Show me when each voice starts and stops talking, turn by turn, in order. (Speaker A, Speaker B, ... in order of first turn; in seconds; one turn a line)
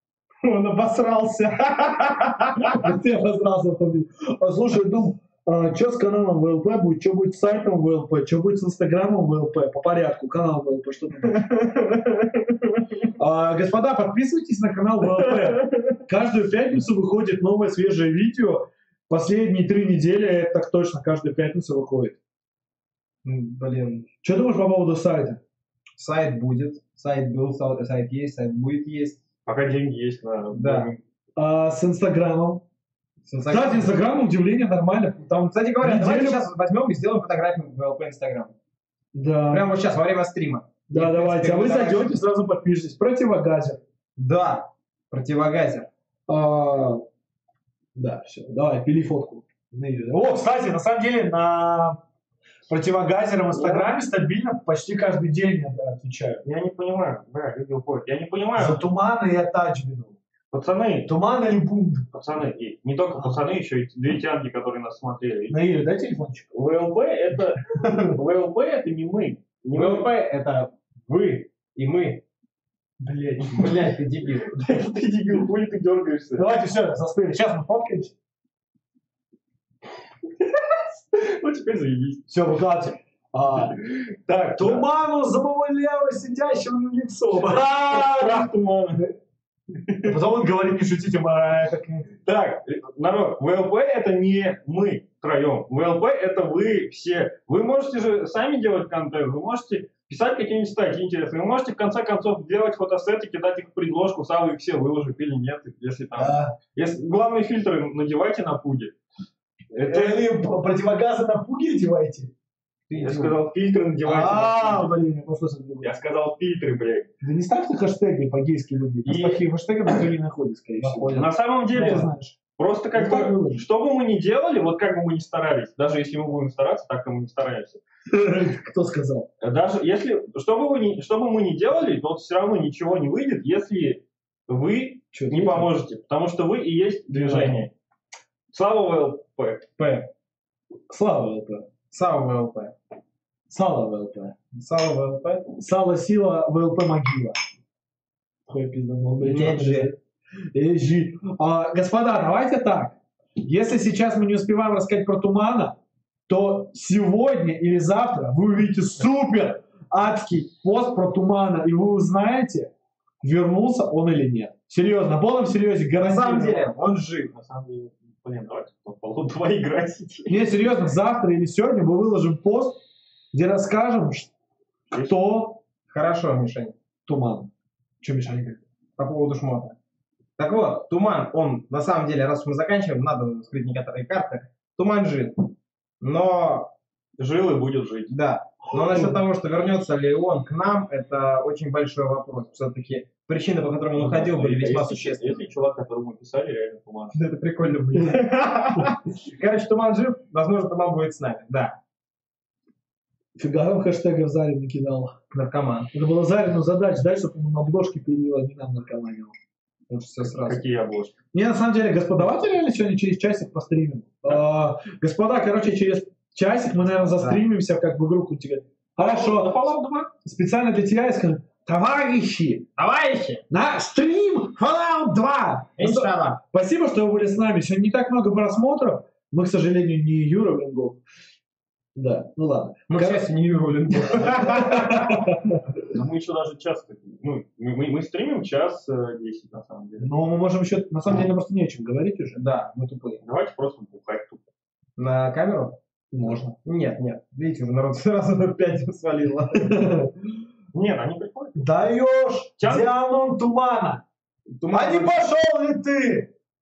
Speaker A: 0.4-2.8
Speaker B: 2.7-11.4
Speaker A: 11.3-12.6
Speaker B: 13.2-22.2
Speaker A: 15.3-15.8
Speaker A: 23.2-24.1
Speaker B: 24.2-25.4
Speaker A: 26.0-29.2
Speaker C: 29.5-31.0
Speaker A: 30.6-30.9
Speaker B: 31.4-32.6
Speaker A: 33.3-34.0
Speaker B: 33.5-36.4
Speaker A: 35.5-38.5
Speaker B: 39.1-39.7
Speaker A: 39.5-42.2
Speaker B: 40.9-43.8
Speaker A: 44.2-45.9
Speaker B: 46.3-47.0
Speaker B: 48.0-52.0
Speaker B: 52.7-56.4
Speaker C: 53.5-53.9
Speaker C: 56.4-58.9
Speaker B: 58.6-60.2
Speaker C: 60.5-61.1
Speaker B: 61.1-62.1
Speaker C: 62.1-65.6
Speaker B: 65.5-66.5
Speaker C: 66.5-70.1
Speaker B: 67.8-68.2
Speaker A: 69.7-72.2
Speaker B: 73.0-73.9
Speaker A: 73.4-74.5
Speaker C: 74.5-76.5
Speaker B: 76.4-78.1
Speaker C: 80.5-82.3
Speaker B: 82.3-83.8
Speaker C: 83.8-84.9
Speaker B: 84.5-88.5
Speaker C: 87.4-89.1
Speaker C: 89.8-90.2
Speaker B: 90.0-92.1
Speaker C: 92.2-108.9
Speaker B: 106.2-106.6
Speaker C: 109.7-110.3
Speaker B: 109.8-112.3
Speaker A: 112.9-113.3
Speaker C: 113.0-114.9
Speaker B: 114.0-116.0
Speaker C: 115.8-117.1
Speaker B: 117.2-122.4
Speaker C: 119.0-119.4
Speaker C: 120.8-127.8
Speaker A: 120.8-121.2
Speaker A: 121.8-122.1
Speaker B: 122.9-123.7
Speaker B: 128.1-129.3
Speaker C: 129.4-137.7
Speaker B: 135.1-135.7
Speaker A: 137.2-137.5
Speaker C: 138.5-139.7
Speaker A: 139.8-140.1
Speaker B: 140.9-141.7
Speaker A: 141.9-142.7
Speaker B: 143.5-144.3
Speaker A: 144.6-145.4
Speaker B: 145.6-147.4
Speaker B: 148.5-150.0
Speaker A: 149.2-149.9
Speaker B: 150.5-155.8
Speaker B: 156.3-166.7
Speaker A: 166.0-167.3
Speaker C: 167.3-170.4
Speaker B: 170.3-172.8
Speaker B: 173.3-174.3
Speaker C: 174.9-175.2
Speaker B: 175.0-175.6
Speaker A: 175.9-176.7
Speaker B: 177.1-177.5
Speaker B: 178.0-178.6
Speaker A: 179.0-179.8
Speaker A: 180.4-185.4
Speaker A: 186.0-186.7
Speaker C: 187.2-188.1
Speaker A: 188.1-195.4
Speaker B: 188.9-189.2
Speaker C: 194.0-197.2
Speaker A: 197.1-201.8
Speaker B: 203.4-205.2
Speaker A: 205.3-205.9
Speaker B: 205.9-209.4
Speaker A: 209.9-210.6
Speaker C: 210.2-211.1
Speaker B: 211.3-219.7
Speaker A: 217.1-217.4
Speaker C: 219.0-220.1
Speaker B: 220.2-222.7
Speaker A: 222.8-223.4
Speaker B: 223.5-231.0
Speaker A: 225.8-226.4
Speaker B: 232.0-233.3
Speaker A: 232.9-235.3
Speaker B: 234.5-235.5
Speaker C: 235.8-240.1
Speaker B: 240.0-242.4
Speaker A: 242.4-243.2
Speaker C: 243.2-244.4
Speaker A: 245.0-245.8
Speaker B: 246.1-246.6
Speaker A: 246.6-249.8
Speaker B: 249.6-250.3
Speaker C: 250.7-251.7
Speaker B: 251.6-254.0
Speaker C: 252.6-252.9
Speaker A: 254.6-255.2
Speaker B: 254.7-256.3